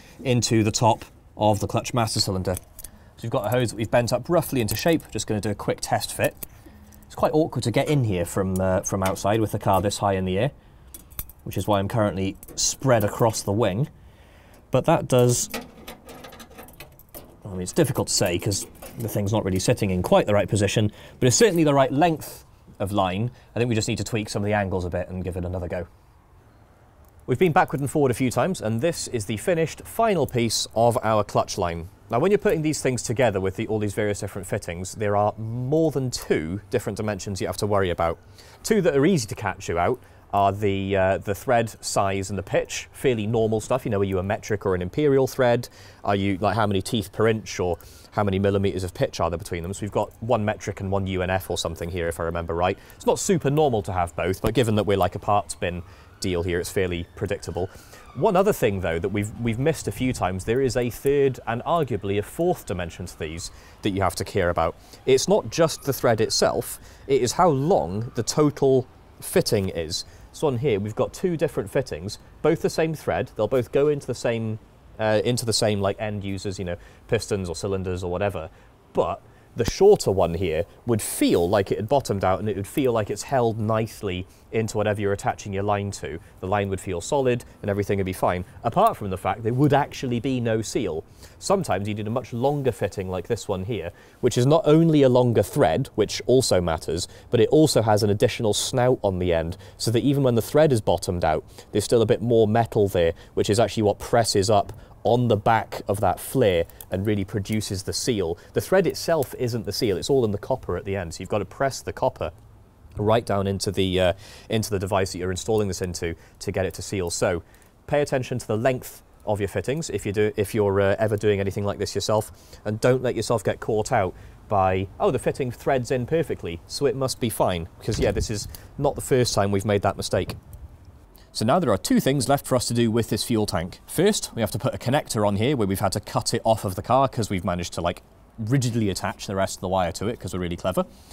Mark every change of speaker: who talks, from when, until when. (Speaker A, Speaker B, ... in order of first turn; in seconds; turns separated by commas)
Speaker A: 0.2-2.6, Speaker A: 3.2-6.4, Speaker A: 7.1-10.5, Speaker A: 11.4-13.9, Speaker A: 14.7-15.5, Speaker A: 17.4-25.9, Speaker A: 27.3-112.3, Speaker A: 113.0-130.4, Speaker A: 131.3-140.9